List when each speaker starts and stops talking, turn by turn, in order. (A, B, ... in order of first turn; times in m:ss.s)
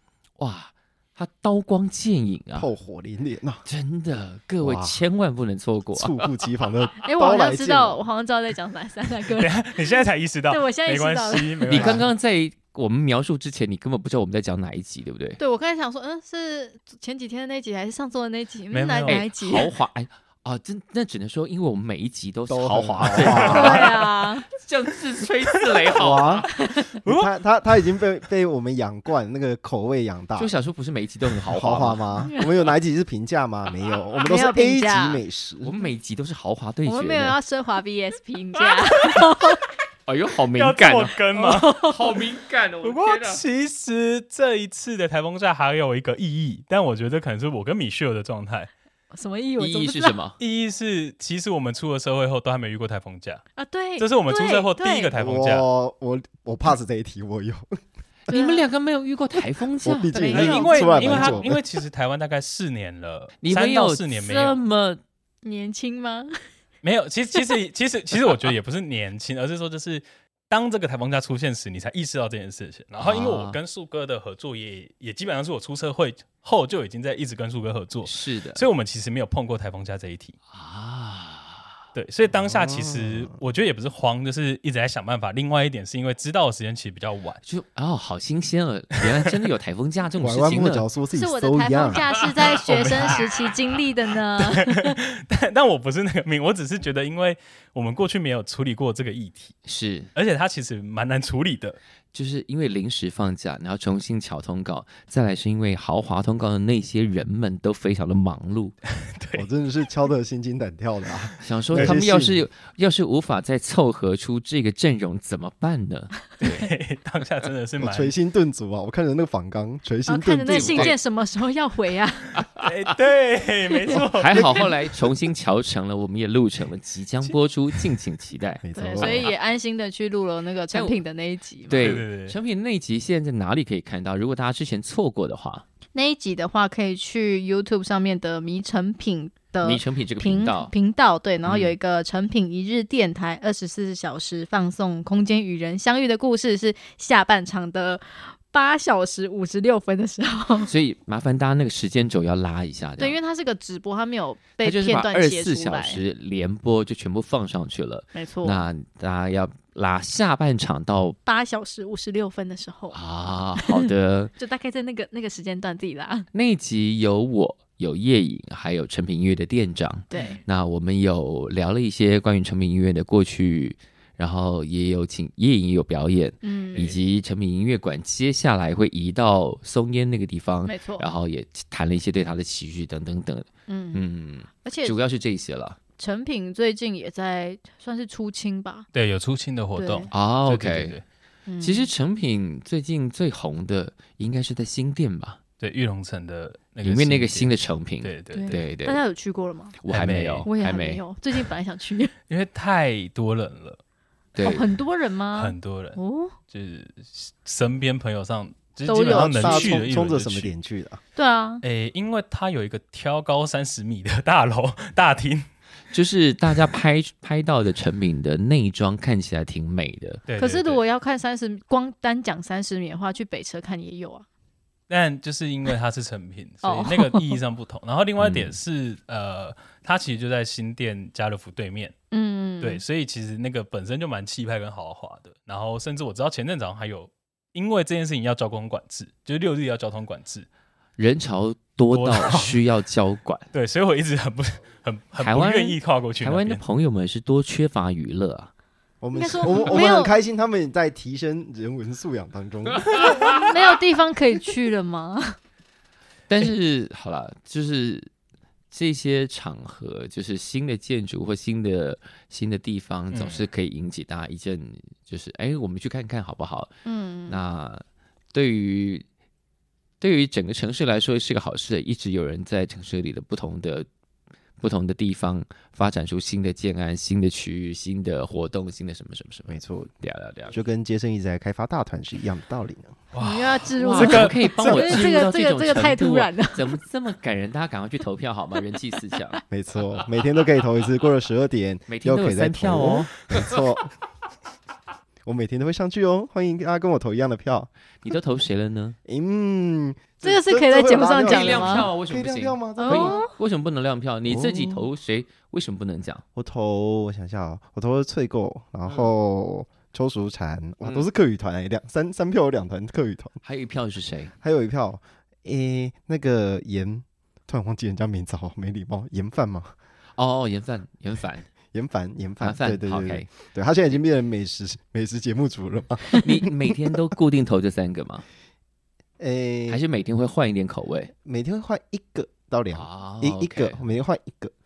0:00.4-0:02.7 A
0:02.6-0:03.6 B
0:03.7-0:06.4 A
0:04.6-0:05.0 B
0:05.9-0:08.0 B
0:07.1-0:12.0 C
0:09.4-0:11.9 D
0:11.7-0:15.4 A
0:11.7-0:12.1 B
0:15.4-0:19.8 C
0:18.7-0:19.2 D
0:19.1-0:23.9 A
0:22.5-0:23.8 B
0:23.4-0:24.5 C
0:24.5-0:26.5 A
0:26.0-0:26.5 B
0:26.5-0:26.9 C
0:27.0-0:30.6 B
0:30.4-0:32.2 A
0:31.5-0:35.8 B
0:32.2-0:32.5 C
0:34.2-0:35.2 C
0:35.6-0:37.4 A
0:36.8-0:39.6 C
0:40.1-0:43.4 A
0:40.6-0:41.7 D
0:41.3-0:42.2 C
0:42.8-0:48.7 D
0:49.1-0:50.2 C
0:49.6-0:50.4 A
0:50.4-0:53.4 D
0:53.6-0:55.2 C
0:54.0-0:55.7 D
0:55.2-0:57.8 B
0:58.3-0:58.7 C
0:58.3-1:00.2 A
0:59.8-1:01.6 B
0:59.9-1:01.4 C
1:00.4-1:04.6 D
1:03.4-1:05.0 A
1:05.4-1:06.3 C
1:06.8-1:20.3 D
1:13.0-1:13.6 A
1:18.1-1:18.7 A
1:20.5-1:21.8 A
1:22.0-1:27.4 D
1:22.4-1:23.4 B
1:27.4-1:30.8 A
1:30.2-1:32.0 B
1:31.1-1:34.9 C
1:32.7-1:33.2 D
1:34.6-1:39.5 D
1:39.7-1:40.1 A
1:40.2-1:41.8 D
1:42.1-1:48.8 A
1:49.0-1:49.4 D
1:49.4-1:52.5 B
1:51.4-1:56.7 A
1:56.4-1:58.1 D
1:57.8-2:01.0 B
2:00.1-2:02.4 C
2:00.5-2:01.0 A
2:02.6-2:04.7 D
2:04.1-2:09.3 A
2:08.6-2:09.3 B
2:08.7-2:12.0 C
2:10.7-2:11.0 A
2:11.7-2:15.6 A
2:11.8-2:12.3 D
2:15.9-2:30.7 C
2:19.6-2:20.7 A
2:21.4-2:21.7 A
2:30.6-2:33.2 A
2:33.0-2:36.0 C
2:34.6-2:41.2 A
2:38.1-2:38.6 C
2:41.3-2:43.0 C
2:42.9-2:44.3 A
2:44.4-2:46.3 C
2:46.3-3:05.8 A
2:50.1-2:50.4 C
2:56.4-2:56.9 C
3:00.6-3:01.1 C
3:03.7-3:04.0 C
3:04.6-3:05.0 C
3:06.0-3:08.9 C
3:08.9-3:11.0 D
3:09.8-3:10.1 C
3:10.1-3:11.0 A
3:11.5-3:11.9 C
3:11.6-3:15.4 A
3:15.6-3:18.6 D
3:16.8-3:19.0 A
3:18.3-3:19.8 C
3:19.8-3:21.0 A
3:19.9-3:20.4 D
3:20.4-3:22.1 C
3:22.3-3:23.8 D
3:24.4-3:24.8 A
3:24.4-3:26.4 C
3:25.4-3:30.6 D
3:28.9-3:29.9 C
3:29.1-3:31.0 B
3:31.2-3:31.6 C
3:31.6-3:35.5 D
3:35.9-3:40.2 A
3:40.3-3:40.8 D
3:40.4-3:44.3 C
3:44.9-3:51.9 D
3:46.6-3:47.4 C
3:48.2-3:48.6 A
3:52.1-3:52.8 C
3:52.6-4:00.5 D
4:01.0-4:03.5 A
4:01.9-4:02.5 D
4:03.5-4:06.6 D
4:05.2-4:08.5 A
4:09.0-4:13.3 B
4:09.1-4:10.2 C
4:13.2-4:15.4 C
4:16.3-4:18.1 A
4:18.7-4:26.8 A
4:23.1-4:23.4 D
4:26.8-4:27.4 C
4:27.3-4:29.0 A
4:30.0-4:33.9 A
4:34.6-4:40.6 A
4:39.5-4:39.9 B
4:40.5-4:43.0 B
4:43.1-4:44.4 D
4:43.2-4:46.8 C
4:43.8-4:49.4 A
4:44.6-4:45.1 B
4:49.5-4:53.9 B
4:51.9-4:53.4 A
4:55.3-4:57.7 B
4:58.0-4:59.0 A
4:59.0-5:03.2 B
5:00.2-5:01.9 C
5:01.2-5:06.2 A
5:02.8-5:03.3 C
5:04.2-5:04.9 B
5:06.4-5:13.4 B
5:10.8-5:11.1 A
5:13.4-5:14.3 A
5:14.4-5:19.7 B
5:20.2-5:21.5 A
5:21.7-5:26.9 B
5:22.4-5:23.3 A
5:26.1-5:28.2 A
5:29.2-5:29.8 B
5:29.7-5:31.1 A
5:31.1-5:34.5 B
5:32.7-5:33.8 A